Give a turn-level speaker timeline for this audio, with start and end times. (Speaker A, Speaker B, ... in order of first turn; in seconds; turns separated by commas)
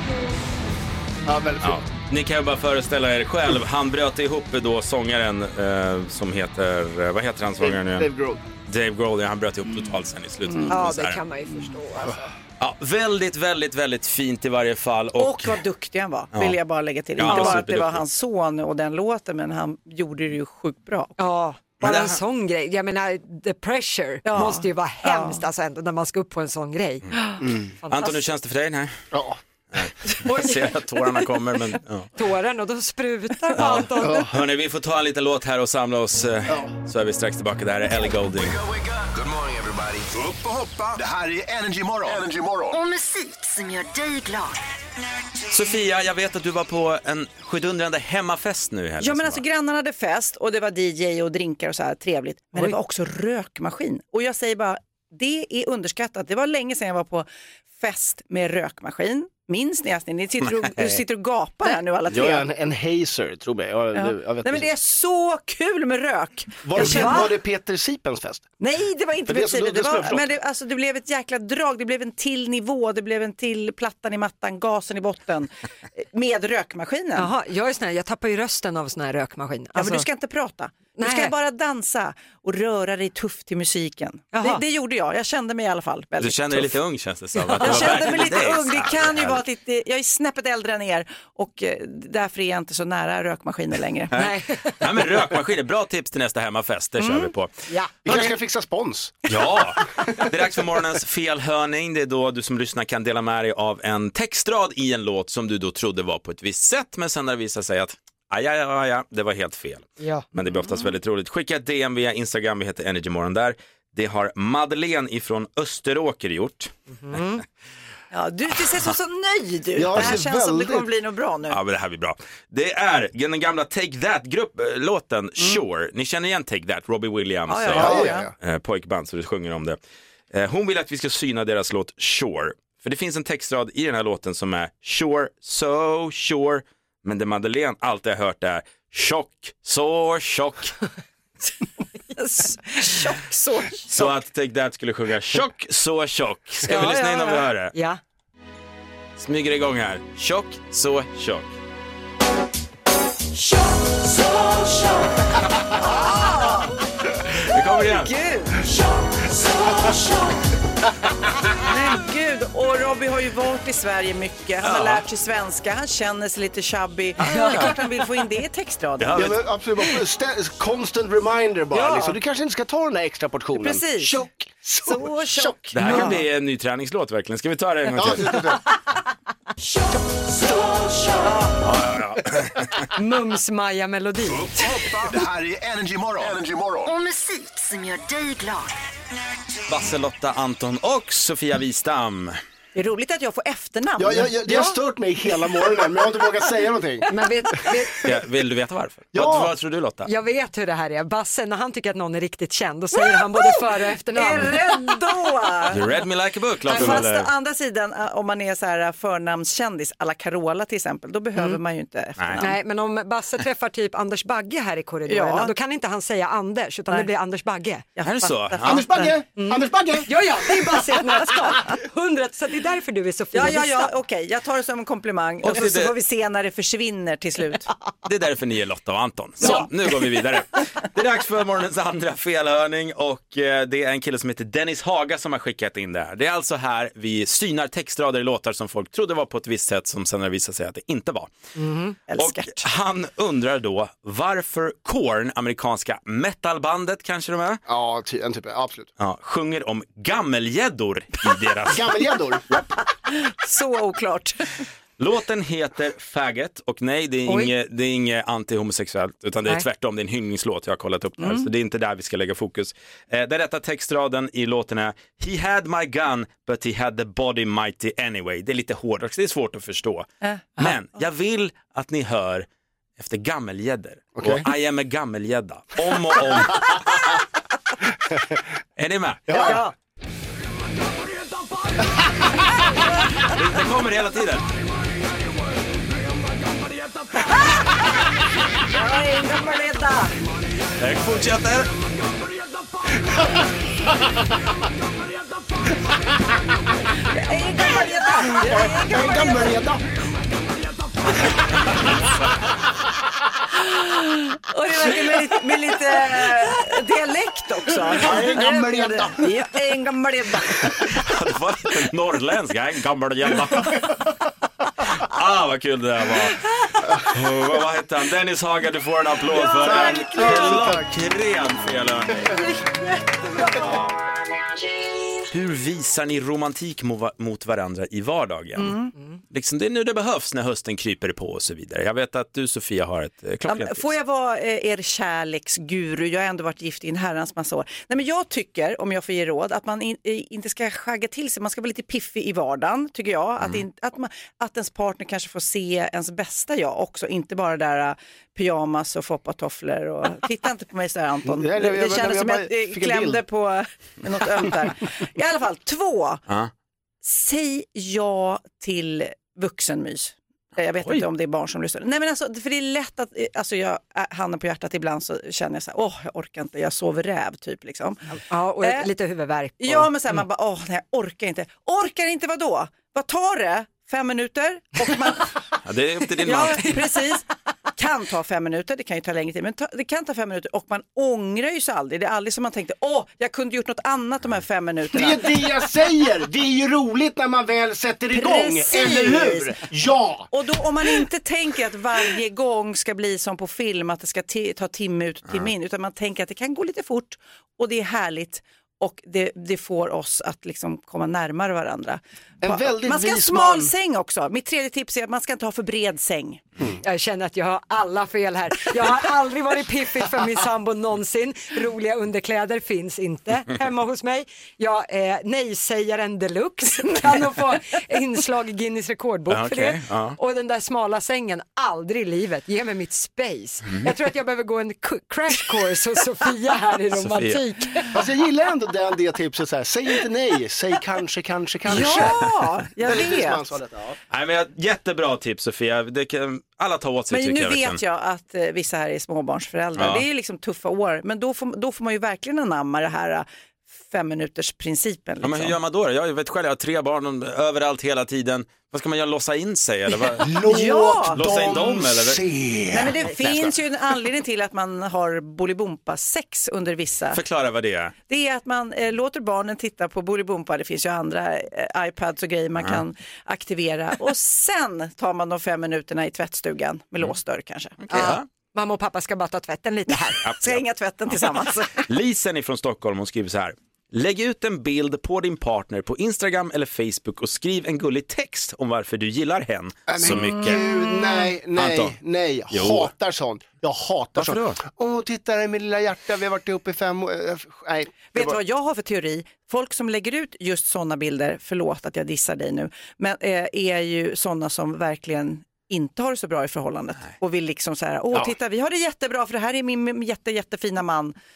Speaker A: 1.2-1.8, Speaker B: 1.6-8.1, Speaker A: 7.6-8.4, Speaker B: 8.7-11.2, Speaker C: 10.7-12.3, Speaker B: 12.6-15.6, Speaker D: 15.2-21.2, Speaker B: 16.3-16.6, Speaker B: 17.1-18.0, Speaker C: 17.3-17.6, Speaker C: 21.2-27.1, Speaker B: 21.8-22.2, Speaker D: 24.2-25.4, Speaker A: 27.4-27.7, Speaker C: 27.8-28.2, Speaker B: 27.9-29.0, Speaker A: 29.1-29.4, Speaker B: 29.7-32.1, Speaker C: 32.1-34.3, Speaker B: 33.6-38.6, Speaker A: 34.0-34.3, Speaker E: 38.4-42.8, Speaker F: 42.7-44.6, Speaker B: 45.5-49.4, Speaker D: 49.0-62.5, Speaker B: 60.5-61.0, Speaker A: 62.1-64.7, Speaker D: 63.9-67.3, Speaker A: 66.6-68.5, Speaker C: 66.8-67.2, Speaker D: 68.6-77.3, Speaker A: 69.3-70.2, Speaker C: 77.1-80.0, Speaker D: 79.8-86.8, Speaker C: 81.0-81.3, Speaker C: 84.3-84.6, Speaker B: 86.2-89.4, Speaker C: 87.4-88.2, Speaker D: 87.5-94.1, Speaker C: 94.1-94.8, Speaker B: 94.1-97.5, Speaker D: 97.0-97.3, Speaker B: 98.0-98.3, Speaker A: 98.0-99.5, Speaker B: 99.3-116.7, Speaker C: 110.0-110.2, Speaker D: 110.5-110.9, Speaker C: 117.0-117.4, Speaker D: 118.1-121.6, Speaker A: 119.8-120.9, Speaker B: 121.5-129.8, Speaker D: 127.5-128.2, Speaker A: 127.7-128.3, Speaker B: 130.3-140.8, Speaker D: 142.2-144.1, Speaker B: 143.9-147.7, Speaker D: 146.7-147.4, Speaker C: 147.7-148.0, Speaker B: 149.2-151.5, Speaker D: 155.8-156.7, Speaker B: 157.4-158.1, Speaker D: 157.5-158.7, Speaker D: 161.6-169.4, Speaker B: 164.6-165.0, Speaker B: 167.2-167.7, Speaker B: 169.0-169.4, Speaker A: 169.1-176.1, Speaker D: 171.7-172.2, Speaker D: 173.5-174.2, Speaker D: 174.8-176.2, Speaker B: 175.7-178.4, Speaker A: 177.9-178.6, Speaker B: 181.6-182.9, Speaker C: 182.9-184.4, Speaker E: 184.2-186.9, Speaker F: 186.8-188.8, Speaker B: 189.7-192.4, Speaker D: 192.7-194.8, Speaker A: 194.0-197.7, Speaker C: 197.1-198.0, Speaker B: 198.0-200.1, Speaker A: 199.1-199.5, Speaker C: 200.0-204.5, Speaker D: 204.1-206.0, Speaker B: 205.7-207.3, Speaker D: 206.6-212.6, Speaker C: 212.4-217.9, Speaker D: 215.1-215.5, Speaker D: 218.0-219.1, Speaker B: 218.0-218.8, Speaker A: 218.6-220.1, Speaker C: 219.4-223.9, Speaker D: 223.3-227.7, Speaker B: 225.4-225.9, Speaker B: 228.1-241.3, Speaker D: 229.4-229.7, Speaker C: 241.6-241.8, Speaker D: 242.1-242.6, Speaker B: 242.2-247.6, Speaker A: 247.7-248.9, Speaker B: 249.0-251.9, Speaker A: 251.7-252.4, Speaker D: 253.1-254.6, Speaker B: 255.0-272.4, Speaker D: 261.2-261.5, Speaker D: 270.2-270.7, Speaker B: 273.0-277.0, Speaker A: 274.1-274.4, Speaker B: 278.8-279.4, Speaker A: 279.2-279.6, Speaker C: 279.3-279.7, Speaker B: 283.2-284.4, Speaker D: 287.2-287.8, Speaker D: 288.6-290.2, Speaker B: 290.8-291.7, Speaker D: 297.0-299.6, Speaker A: 298.4-299.8, Speaker D: 303.6-311.0, Speaker A: 307.9-309.4, Speaker B: 310.9-314.0, Speaker B: 314.9-322.4, Speaker C: 319.4-320.6, Speaker A: 319.6-320.9, Speaker C: 322.3-323.7, Speaker B: 325.3-328.8, Speaker D: 328.6-328.9, Speaker B: 329.3-333.9, Speaker D: 333.5-356.2, Speaker A: 351.2-353.2, Speaker D: 357.0-368.9, Speaker B: 360.8-361.1, Speaker C: 368.3-369.9, Speaker D: 369.6-375.5, Speaker B: 375.6-376.8, Speaker D: 376.2-385.4, Speaker A: 384.9-390.3, Speaker D: 388.1-389.5, Speaker D: 390.3-406.4, Speaker A: 402.4-403.7, Speaker C: 406.8-427.9, Speaker B: 419.3-420.2, Speaker B: 426.9-427.4, Speaker A: 427.9-434.0, Speaker D: 431.6-433.4, Speaker B: 434.1-437.8, Speaker D: 437.1-443.3, Speaker B: 439.8-440.0, Speaker D: 443.8-445.6, Speaker B: 445.2-450.4, Speaker A: 450.2-453.0, Speaker D: 450.4-451.5, Speaker B: 451.1-452.2, Speaker D: 452.7-457.2, Speaker B: 453.0-453.6, Speaker B: 457.1-457.9, Speaker D: 458.1-468.2, Speaker B: 462.6-462.8, Speaker B: 467.8-468.2, Speaker C: 467.9-470.2, Speaker B: 470.2-471.2, Speaker D: 470.4-471.8, Speaker B: 471.8-480.6, Speaker A: 479.9-488.4, Speaker B: 481.6-481.9, Speaker B: 482.5-482.9, Speaker B: 484.2-484.6, Speaker D: 488.1-501.1